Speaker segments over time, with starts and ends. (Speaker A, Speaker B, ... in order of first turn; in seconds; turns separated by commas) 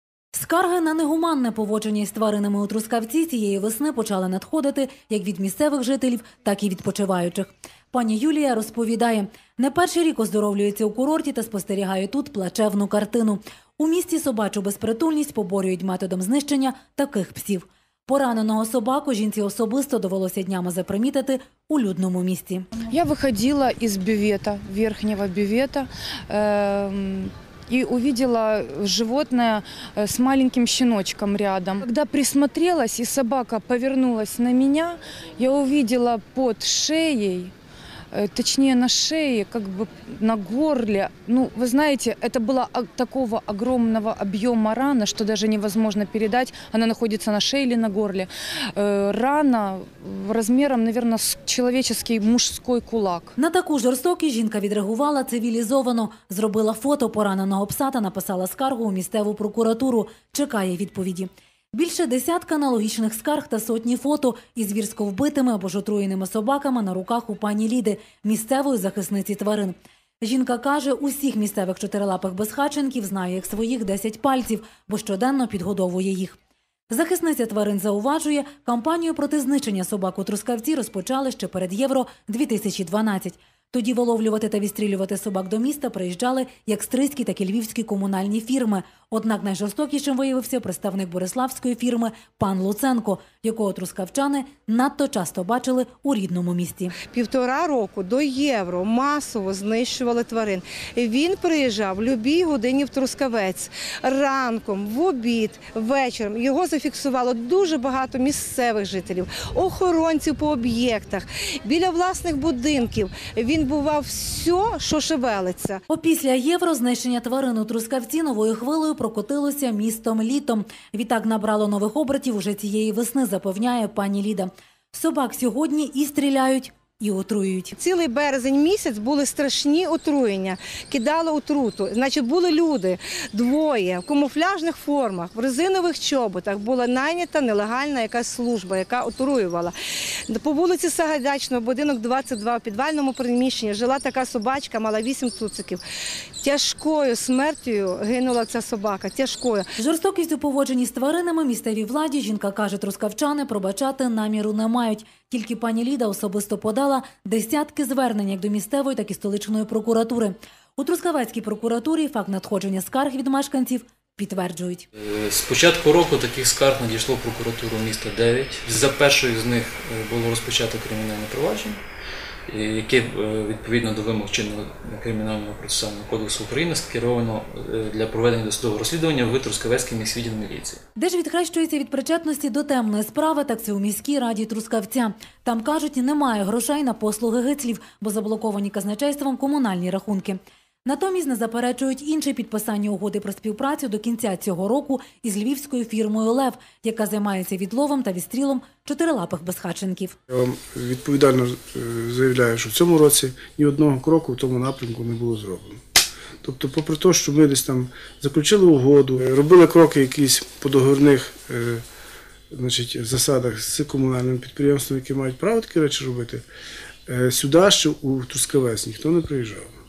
Speaker A: 0.3-22.7, Speaker B: 22.9-37.5, Speaker B: 38.1-53.4, Speaker A: 53.4-76.4, Speaker A: 76.9-96.9, Speaker C: 97.1-115.8, Speaker A: 115.9-127.8, Speaker C: 127.8-139.7, Speaker C: 140.3-145.8, Speaker C: 146.4-149.7, Speaker A: 149.8-164.8, Speaker D: 164.9-171.8, Speaker D: 172.5-180.8, Speaker A: 181.0-200.2, Speaker E: 200.3-205.8, Speaker E: 206.4-211.8, Speaker E: 212.5-216.4, Speaker E: 217.1-219.7